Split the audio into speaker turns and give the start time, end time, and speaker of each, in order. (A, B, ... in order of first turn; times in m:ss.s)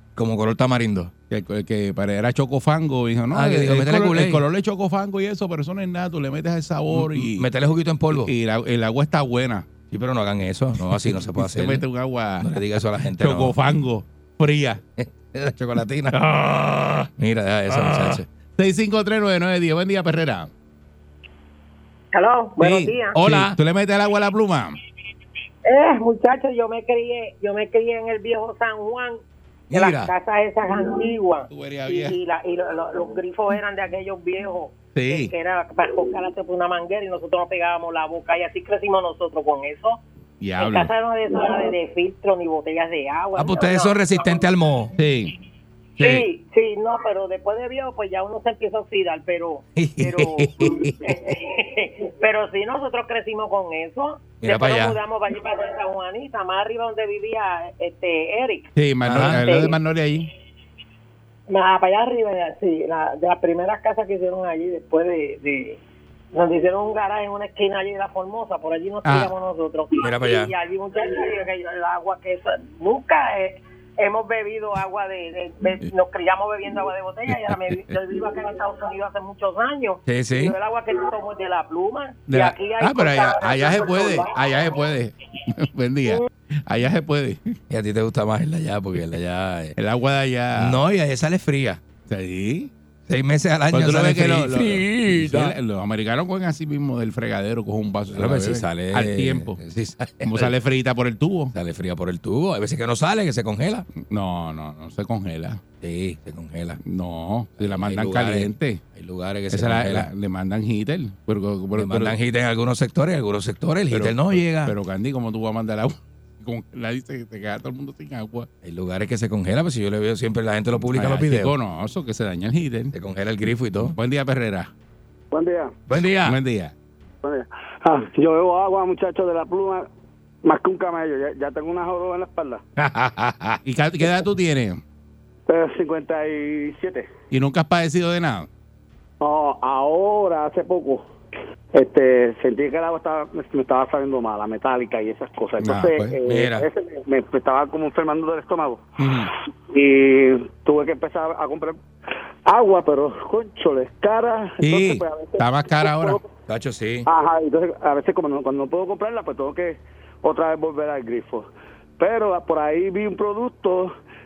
0:00.2-0:01.1 A
0:01.3-0:07.5 B
0:03.3-0:04.4 A
0:06.9-0:08.3 A
0:08.1-0:09.7 B
0:09.9-0:11.8 A
0:10.9-0:12.6 B
0:12.4-0:13.6 A
0:13.1-0:14.8 B
0:15.0-0:18.2 A
0:17.7-0:20.5 B
0:22.1-0:23.2 C
0:22.6-0:24.8 B
0:23.2-0:23.6 A
0:25.6-0:29.2 C
0:29.7-0:30.1 A
0:29.7-0:40.0 C
0:31.5-0:32.2 B
0:35.0-0:35.3 B
0:40.4-0:40.9 B
0:40.6-0:44.3 C
0:43.4-0:44.9 A
0:45.0-0:45.3 B
0:46.0-0:59.8 C
0:46.0-0:46.2 A
0:49.8-0:50.9 A
0:54.4-0:55.0 A
0:58.8-1:00.3 B
0:59.1-0:59.5 A
1:01.5-1:05.8 C
1:06.3-1:24.4 C
1:09.0-1:09.3 B
1:10.0-1:10.5 A
1:20.1-1:20.5 A
1:22.3-1:27.5 B
1:27.7-1:29.8 A
1:29.8-1:30.8 B
1:30.6-1:31.8 A
1:32.1-1:32.7 B
1:33.1-1:35.6 A
1:33.7-1:39.6 B
1:38.1-1:40.5 A
1:40.2-1:41.5 B
1:41.5-1:43.9 A
1:44.0-1:45.6 B
1:45.8-1:46.8 A
1:46.8-1:48.8 B
1:47.6-1:50.1 A
1:49.5-1:52.2 B
1:51.8-1:54.8 A
1:53.9-1:58.5 B
1:58.6-2:01.5 A
2:00.8-2:02.9 B
2:02.9-2:04.0 A
2:03.8-2:04.7 B
2:05.3-2:05.8 D
2:05.9-2:06.4 A
2:06.2-2:06.7 B
2:07.2-2:09.9 D
2:10.4-2:12.6 D
2:12.8-2:13.6 A
2:13.6-2:14.8 B
2:15.5-2:17.1 D
2:17.3-2:18.5 B
2:19.2-2:21.1 D
2:21.7-2:28.9 D
2:25.6-2:26.2 B
2:26.3-2:26.7 A
2:29.0-2:29.3 B
2:29.7-2:31.8 D
2:32.5-2:36.2 D
2:34.6-2:36.2 B
2:36.5-2:37.1 A
2:37.1-2:41.5 D
2:42.0-2:44.0 D